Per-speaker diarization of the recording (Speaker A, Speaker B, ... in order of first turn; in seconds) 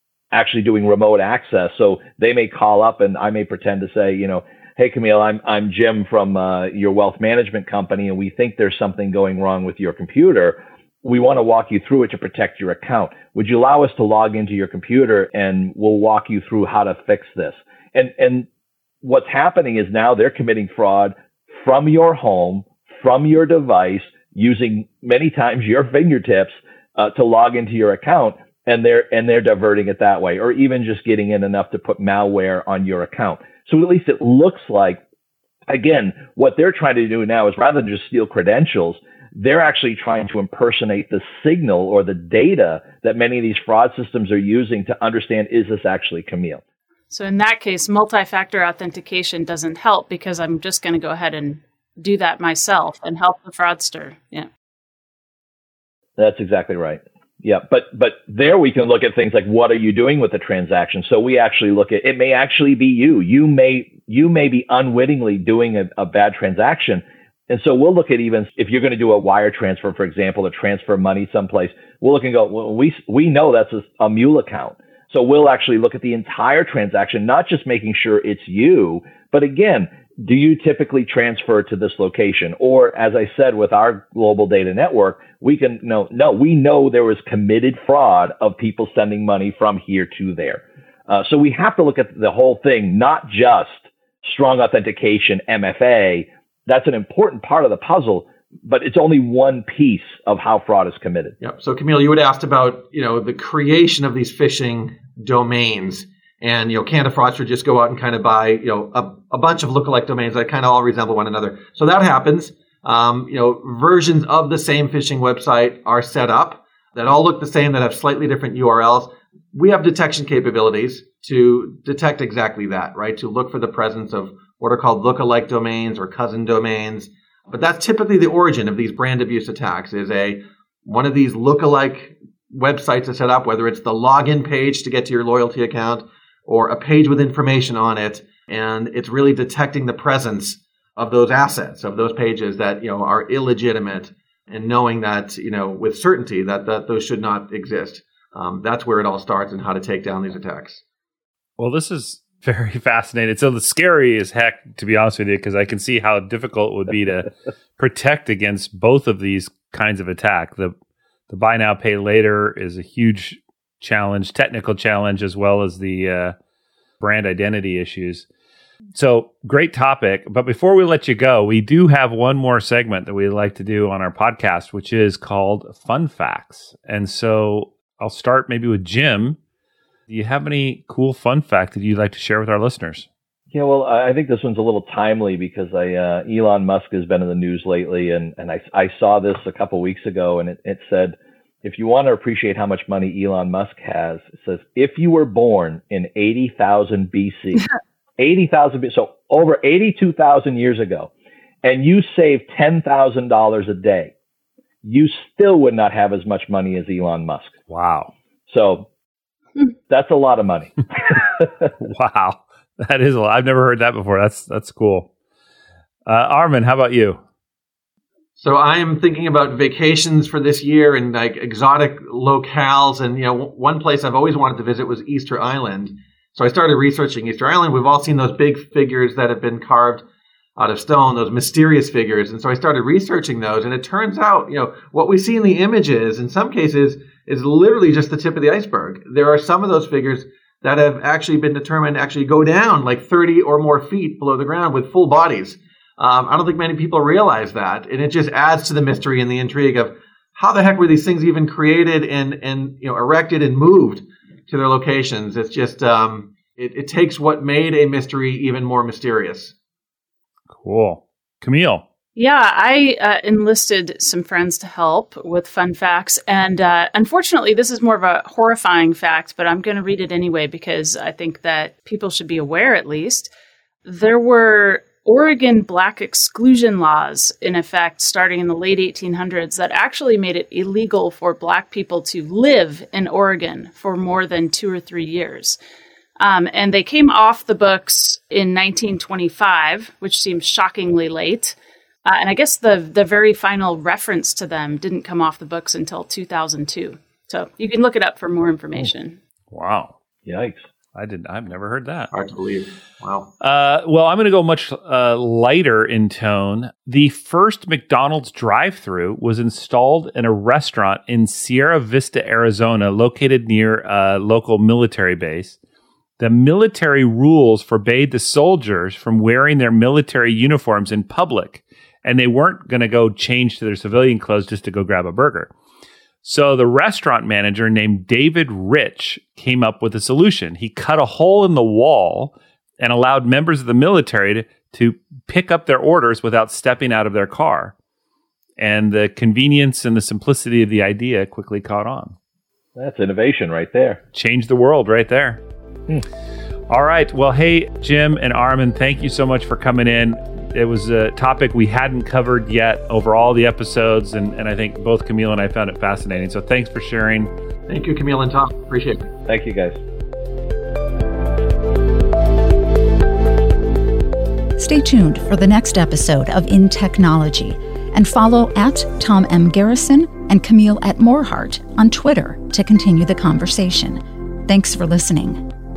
Speaker A: 0.3-18.5, 19.0-35.0, 35.7-46.6, 56.2-101.3, 183.5-201.1, 201.6-204.1, 204.8-207.5, 208.5-208.9, 209.9-211.7, 300.2-300.6, 342.8-344.0, 359.3-359.8
Speaker B: 47.1-54.5, 262.1-273.3, 273.8-285.6, 286.2-299.2
Speaker C: 101.4-150.8, 218.4-230.0, 230.6-259.5, 302.1-303.3, 357.7-359.1
Speaker D: 151.6-160.7, 161.3-166.3, 167.0-168.3, 168.9-179.4, 180.1-183.1, 207.7-208.1, 211.8-215.1, 216.1-217.2, 260.5-261.8, 299.5-299.9, 300.9-302.1, 303.4-315.6, 316.2-325.5, 326.2-337.7, 338.6-342.1, 344.1-345.4, 346.7-357.3
Speaker E: 364.6-375.4